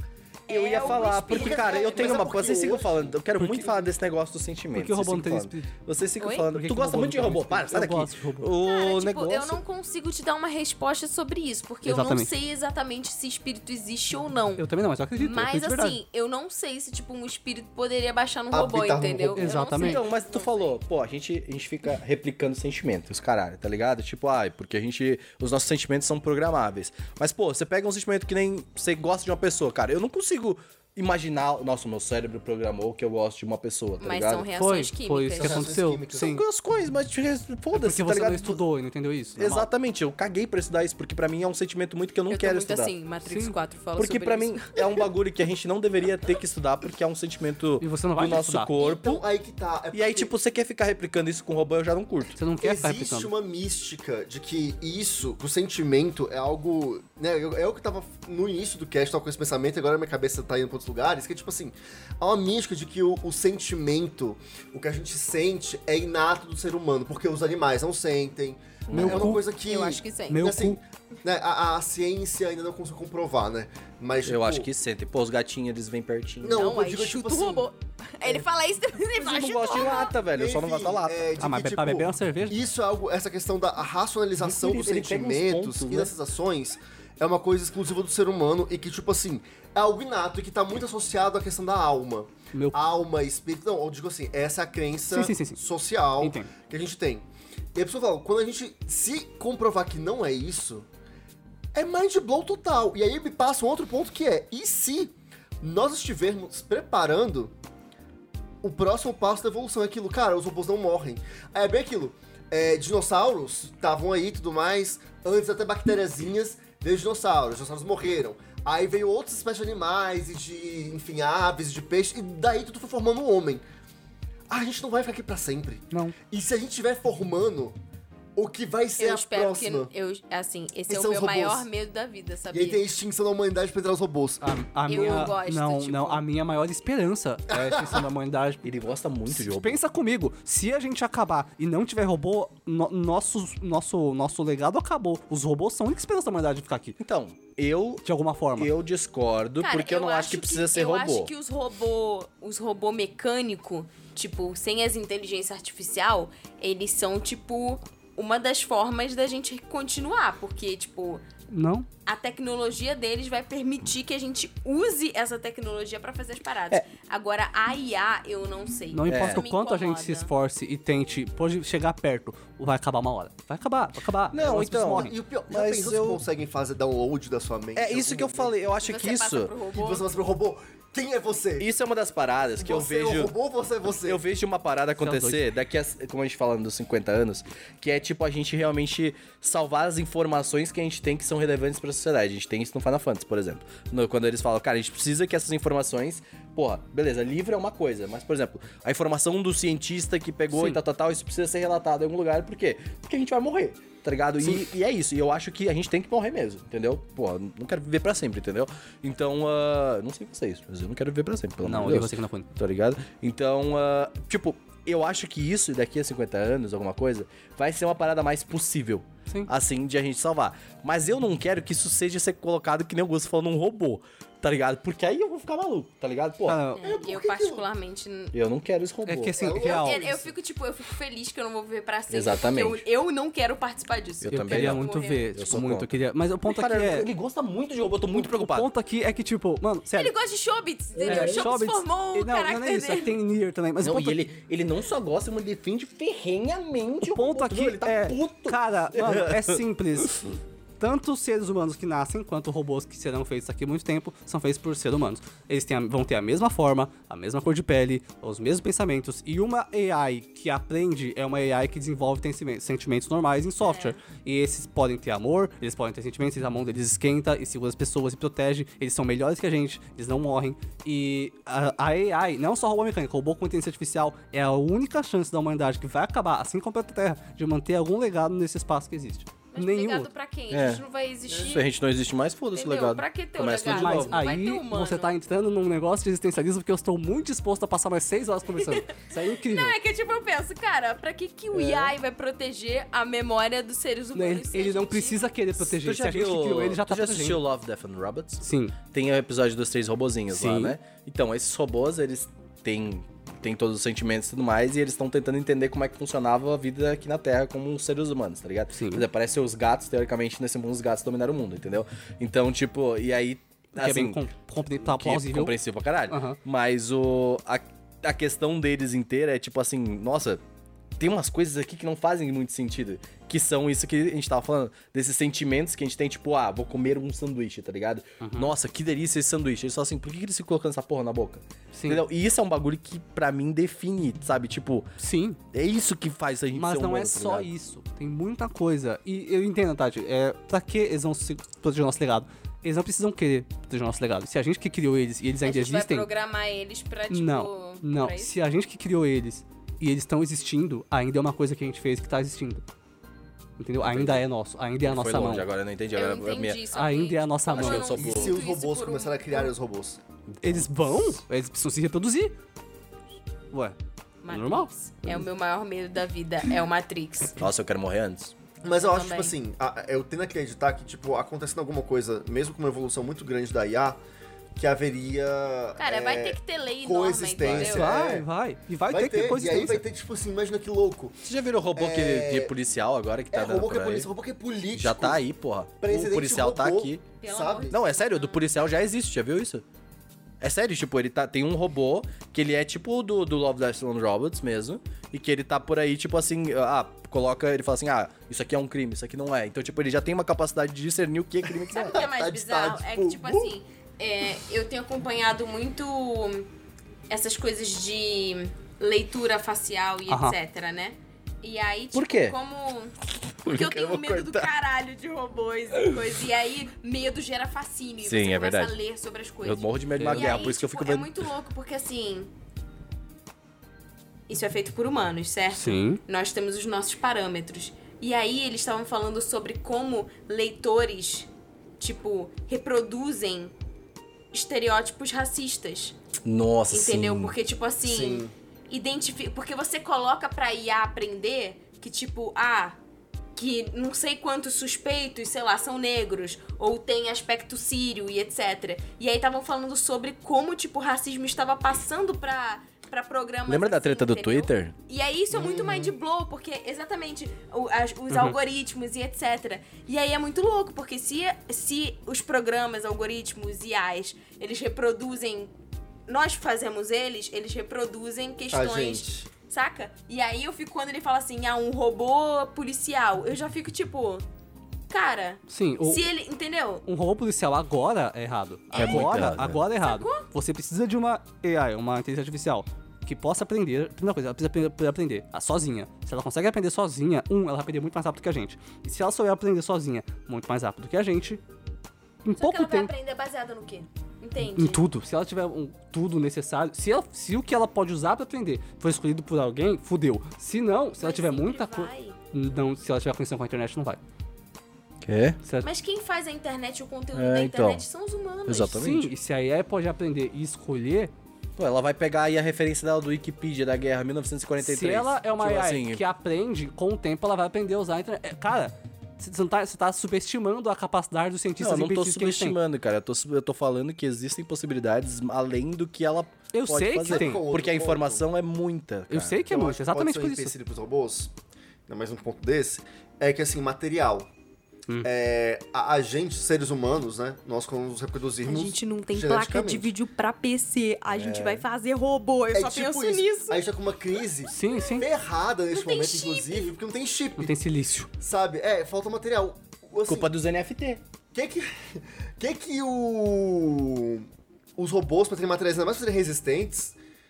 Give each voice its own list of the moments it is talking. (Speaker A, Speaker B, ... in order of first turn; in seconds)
Speaker A: 0.5-2.2, 6.2-6.5, 8.6-14.6, 15.1-20.8, 34.0-35.7, 42.3-45.0, 69.5-70.5, 76.5-80.1, 129.0-132.8, 134.9-136.2, 149.6-161.2, 162.1-170.3, 178.8-180.0, 226.7-228.3, 229.6-235.3, 239.9-243.2, 263.6-264.0, 279.5-281.7, 282.5-285.1, 288.6-295.3, 345.4-348.3, 355.9-359.5, 364.2-367.4, 368.7-369.3, 375.8-377.9, 387.2-388.5, 401.7-406.5, 407.1-422.3, 424.3-431.3, 431.8-433.5, 434.3-435.9, 436.7-442.8, 443.4-465.5, 466.1-474.2, 474.9-476.8, 478.7-480.2, 492.4-494.8, 501.0-502.2, 505.6-508.8, 538.4-543.6, 545.7-546.7
Speaker B: 0.5-9.6, 19.7-34.5, 36.1-38.6, 39.4-42.9, 44.0-49.2, 49.9-52.4, 68.9-69.3, 74.2-76.7, 79.2-81.2, 84.4-86.1, 138.6-139.8, 147.0-148.0, 148.6-151.3, 169.1-169.4, 174.3-176.2, 177.8-179.5, 181.6-183.3, 184.0-226.6, 228.3-229.4, 232.1-232.8, 234.2-234.8, 235.3-235.9, 236.5-238.7, 241.0-241.5, 243.8-249.6, 280.5-284.2, 295.6-314.2, 314.8-320.4, 321.0-334.9, 335.5-337.5, 353.8-354.2, 354.8-356.6, 357.5-358.4, 367.4-368.3, 377.4-377.7, 381.2-384.1, 384.7-387.0, 387.7-389.6, 390.4-402.1, 411.9-412.4, 413.4-414.5, 418.0-418.7, 419.4-421.2, 436.2-437.3, 453.5-454.7, 478.7-479.6, 505.0-505.4, 507.1-507.8, 508.5-509.1, 511.6-516.0, 521.6-529.5, 541.1-541.6, 550.1-551.0
Speaker C: 0.9-3.2, 18.5-19.5, 35.4-36.4, 48.8-50.3, 52.6-74.7, 76.4-77.7, 79.7-100.8, 101.7-107.5, 108.6-123.6, 124.5-127.8, 128.3-129.9, 130.9-131.7, 132.5-134.4, 137.5-138.0, 174.4-178.6, 179.7-181.7, 182.6-184.2, 226.8-227.7, 229.3-230.3, 357.9-360.0, 368.6-374.0, 374.6-378.3, 378.9-381.1, 381.8-382.5, 383.3-385.2, 385.8-387.7, 401.7-403.5, 437.8-438.3, 455.3-455.9, 468.5-469.3, 527.0-528.2, 529.5-531.3, 531.9-534.3, 535.0-539.9, 542.5-547.5, 548.2-550.3, 551.3-557.0
Speaker D: 3.4-3.8, 4.7-5.7, 6.5-8.5, 11.8-12.3, 14.6-16.0, 19.4-20.0, 34.5-36.4, 37.7-39.7, 43.2-43.5, 47.8-48.7, 52.4-53.3, 68.9-69.4, 70.3-70.8, 81.4-82.6, 92.5-92.8, 95.1-95.6, 96.2-96.5, 134.4-138.7, 139.3-147.0, 148.0-148.7, 161.5-161.9, 168.9-175.1, 185.0-185.4, 200.5-200.8, 211.6-212.5, 226.5-226.8, 229.1-230.1, 234.2-237.1, 238.1-240.1, 241.0-244.2, 247.1-280.1, 283.7-289.7, 291.6-291.8, 294.1-297.4, 298.4-298.8, 300.3-300.8, 308.7-309.0, 313.7-315.6, 316.1-316.4, 328.2-328.5, 331.7-332.0, 335.0-335.4, 336.5-346.1, 347.1-352.6, 353.6-355.5, 356.7-358.0, 360.4-362.3, 364.3-365.2, 377.6-379.8, 410.1-410.3, 420.0-420.5, 425.5-426.0, 458.1-458.4, 475.5-476.0, 476.9-491.4, 492.2-492.9, 494.6-504.0, 505.4-505.7, 508.7-511.1, 514.6-522.6, 526.5-527.4, 529.1-530.5, 544.5-545.1, 547.4-548.1